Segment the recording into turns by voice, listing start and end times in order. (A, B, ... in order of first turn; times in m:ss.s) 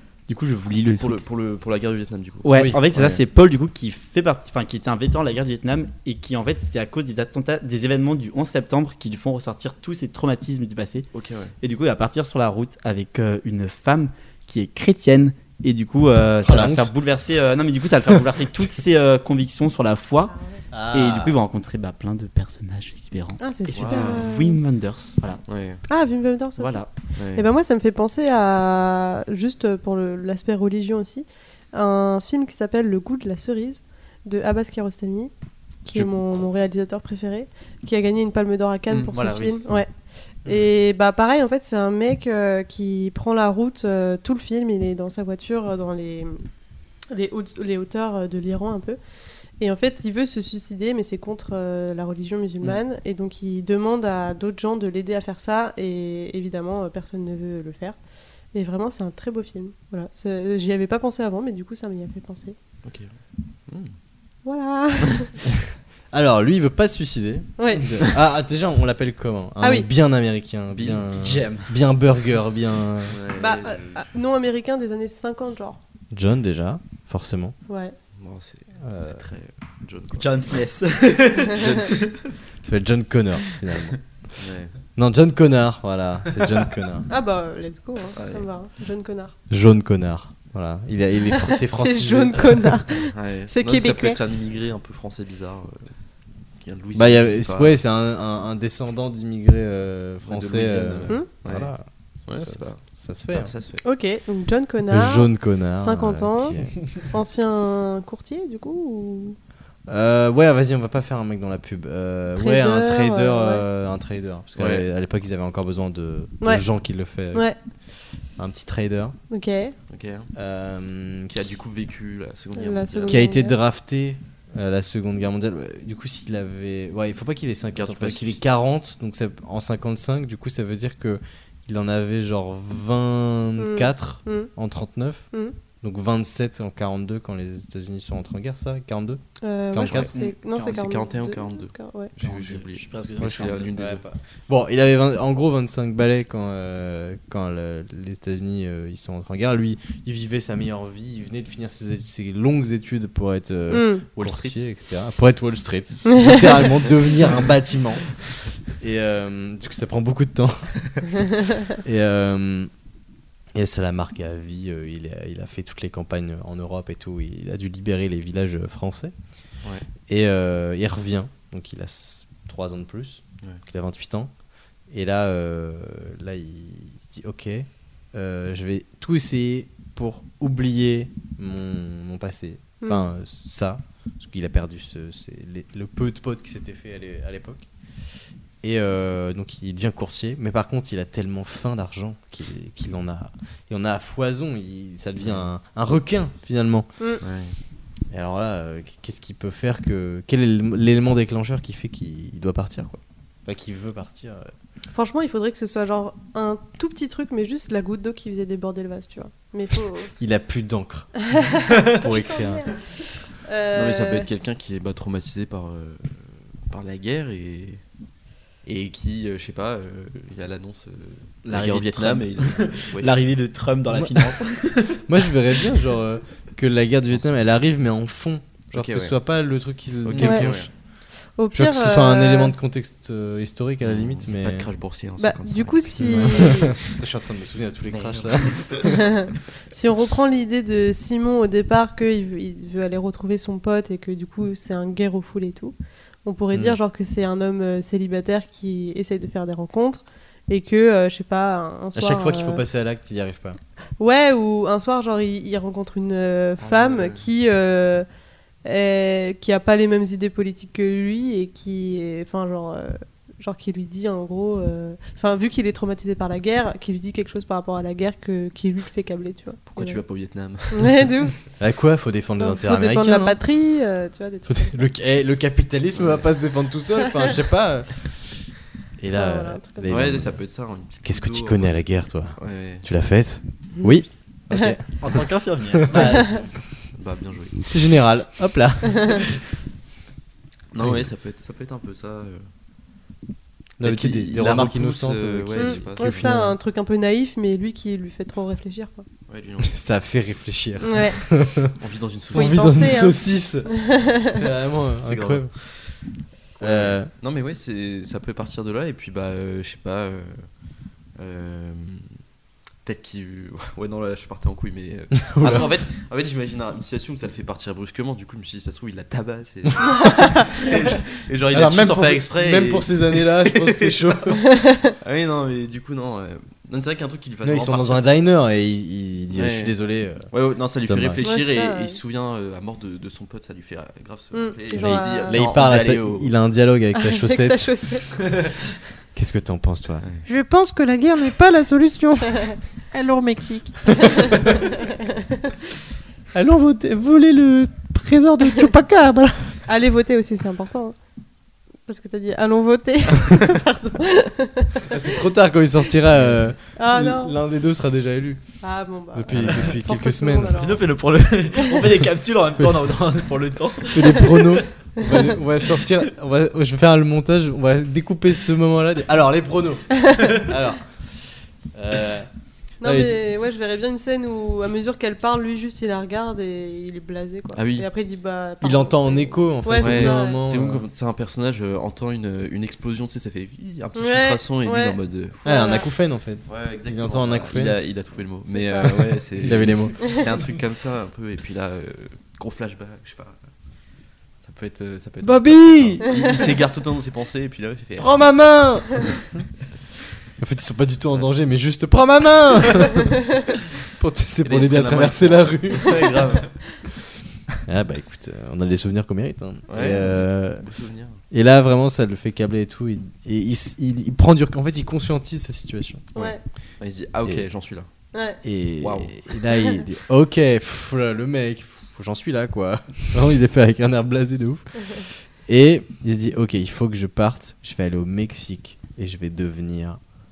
0:00.3-0:01.3 A
0:00.8-0:03.2 B
0:02.4-0:11.1 A
0:02.5-0:02.8 C
0:11.1-0:11.5 B
0:11.6-0:20.4 A
0:16.4-0:16.9 C
0:20.7-0:21.4 C
0:20.9-0:25.4 A
0:23.4-0:24.6 D
0:23.7-0:24.2 B
0:25.5-0:25.8 B
0:25.9-0:35.3 D
0:26.6-0:26.9 A
0:27.2-0:27.4 B
0:35.8-0:39.9 D
0:35.9-0:36.4 B
0:38.9-0:39.8 A
0:40.4-0:46.5 D
0:47.1-0:49.0 D
0:49.5-0:58.0 D
0:58.5-1:02.5 D
1:02.8-1:03.1 B
1:03.7-1:03.9 B
1:04.4-1:05.3 D
1:06.1-1:13.2 C
1:07.6-1:07.8 D
1:09.6-1:09.9 D
1:10.7-1:11.0 B
1:11.2-1:11.7 A
1:13.1-1:14.0 B
1:13.4-1:15.8 D
1:16.1-1:17.6 C
1:17.7-1:18.0 D
1:18.2-1:20.3 B
1:18.8-1:19.2 C
1:20.2-1:22.1 A
1:21.5-1:22.0 B
1:22.6-1:27.1 C
1:24.4-1:24.7 B
1:27.1-1:29.3 D
1:28.1-1:28.5 B
1:29.5-1:32.8 C
1:31.5-1:34.2 D
1:32.9-1:37.8 B
1:36.9-1:43.5 C
1:40.2-1:43.8 B
1:43.8-1:49.4 D
1:44.9-1:46.9 C
1:49.9-1:59.2 C
1:52.4-1:53.6 D
1:54.6-1:54.8 B
1:56.4-1:56.6 D
1:59.3-1:59.7 D
1:59.9-2:00.3 B
2:00.3-2:01.6 C
2:01.3-2:03.2 B
2:02.5-2:03.6 D
2:03.0-2:19.2 C
2:07.7-2:08.4 B
2:13.6-2:14.5 D
2:19.4-2:22.1 D
2:19.7-2:20.1 C
2:19.9-2:24.0 B
2:22.2-2:23.7 A
2:23.2-2:40.9 C
2:33.7-2:34.0 D
2:34.1-2:34.6 B
2:41.8-2:42.7 C
2:43.5-3:07.7 C
3:02.8-3:03.1 D
3:08.6-3:16.9 C
3:15.2-3:15.5 B
3:17.2-3:17.6 B
3:18.1-3:24.5 C
3:24.9-3:30.1 D
3:30.2-3:31.3 C
3:31.3-3:34.3 D
3:31.9-3:32.6 C
3:33.7-3:37.8 B
3:38.6-3:43.1 B
3:41.4-3:45.0 A
3:43.9-3:50.7 C
3:48.7-3:49.1 B
3:50.0-3:50.7 B
3:50.2-3:50.5 D
3:51.3-3:52.5 D
3:51.5-3:54.7 C
3:53.8-3:56.8 B
3:55.2-3:56.7 D
3:56.0-3:59.0 C
3:57.9-3:59.1 B
3:59.7-4:12.6 D
4:11.9-4:13.6 C
4:14.0-4:18.0 D
4:16.6-4:17.2 B
4:18.6-4:30.0 D
4:29.6-4:31.1 B
4:30.7-4:31.4 D
4:31.6-4:33.4 C
4:32.4-4:34.9 D
4:34.5-4:46.5 C
4:36.0-4:36.2 B
4:39.1-4:40.1 D
4:39.8-4:42.8 B
4:44.5-4:44.8 D
4:45.0-4:46.5 A
4:46.9-4:47.7 B
4:47.7-4:49.4 C
4:50.7-4:52.4 B
4:50.8-4:51.1 C
4:53.8-4:56.6 C
4:53.8-4:56.3 B
4:55.5-4:59.0 D
4:59.3-4:59.8 B
4:59.6-5:01.7 C
5:00.8-5:01.2 D
5:01.8-5:03.1 B
5:02.3-5:05.5 C
5:02.3-5:04.3 D
5:05.0-5:06.0 B
5:06.6-5:07.1 C
5:06.6-5:10.4 B
5:11.2-5:12.1 B
5:12.8-5:24.2 B
5:15.1-5:15.7 C
5:21.5-5:24.6 C
5:25.0-5:28.1 B
5:27.4-5:30.3 C
5:29.3-5:29.7 B
5:30.3-5:36.3 B
5:30.8-5:31.3 C
5:31.2-5:32.0 D
5:34.3-5:35.4 D
5:34.7-5:38.4 C
5:36.9-5:38.1 D
5:39.1-5:40.0 C
5:40.2-5:44.4 E
5:46.3-5:49.5 C
5:48.8-5:49.1 E
5:49.6-5:51.0 D
5:51.9-5:54.9 D
5:54.8-5:58.4 C
5:56.8-5:57.3 D
5:58.6-6:00.8 D
5:59.1-6:00.6 C
5:59.3-5:59.7 B
6:00.6-6:04.6 A
6:03.9-6:10.9 C
6:11.7-6:12.3 C
6:12.8-6:20.4 D
6:12.8-6:13.2 C
6:17.5-6:17.9 B
6:18.6-6:20.9 C
6:19.8-6:25.7 B
6:24.0-6:25.8 D
6:25.4-6:27.8 C
6:26.4-6:33.4 B
6:28.5-6:28.9 D
6:28.8-6:30.2 C
6:34.4-6:38.2 B
6:35.2-6:36.2 C
6:38.0-6:39.4 C
6:40.4-6:43.2 C
6:44.0-6:46.2 C
6:44.4-6:46.8 B
6:47.6-6:50.7 C
6:49.7-6:51.2 B
6:51.3-6:56.1 C
6:56.1-6:56.4 D
6:56.2-6:57.9 B
6:58.1-6:58.4 D
6:58.4-7:10.0 C
6:58.8-6:59.2 B